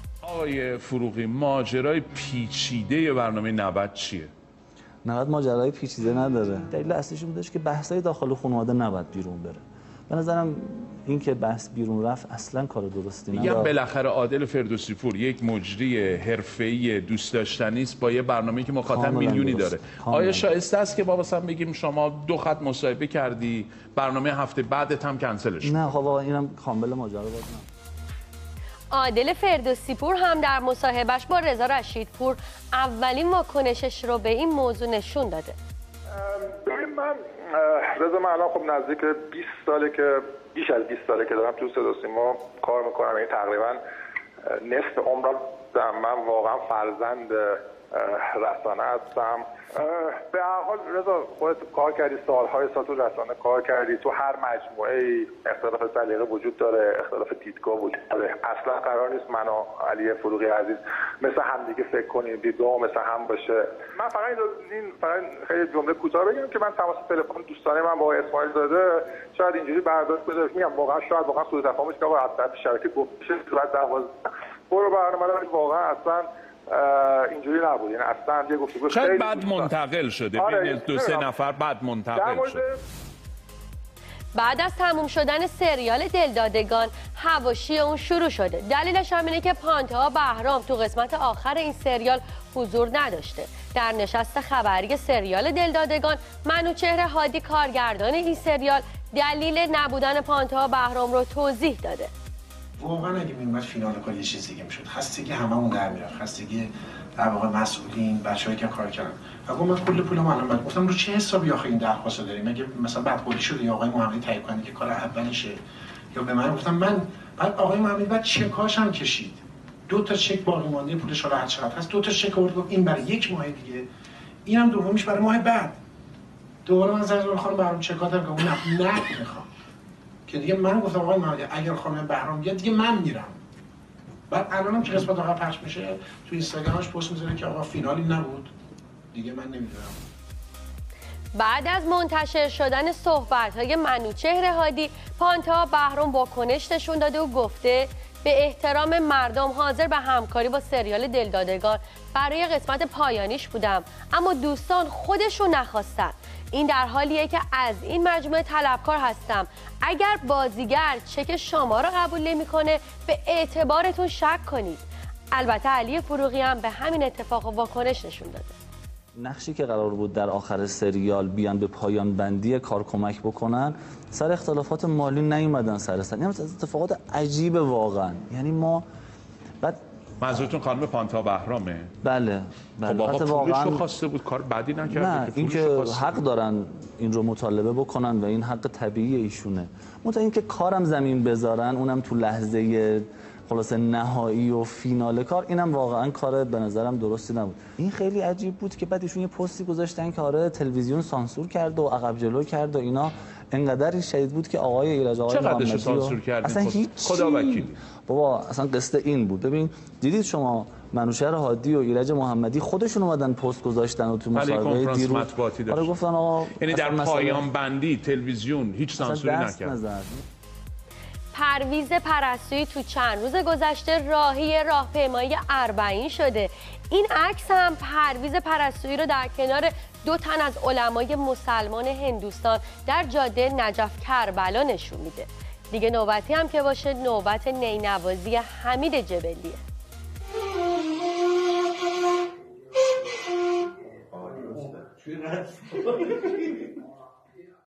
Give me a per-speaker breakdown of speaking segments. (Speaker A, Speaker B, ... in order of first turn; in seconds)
Speaker A: 0.2-4.3, 13.3-25.9, 78.9-82.6, 180.2-181.9, 182.8-186.2, 205.3-207.8, 214.3-215.9, 216.6-219.8
Speaker B: 5.0-13.8, 18.9-20.5, 25.6-27.7, 169.2-178.9, 182.0-183.8, 184.9-217.5, 219.0-220.2
Speaker C: 28.9-35.6, 84.3-102.1, 141.3-164.8, 165.3-168.6, 221.3-239.6
Speaker D: 36.1-43.8, 44.4-79.7, 80.4-81.3, 82.1-82.8
Speaker E: 102.8-115.6, 116.1-123.9, 124.5-125.8, 126.7-129.5, 130.3-133.4, 134.3-138.5, 139.1-140.0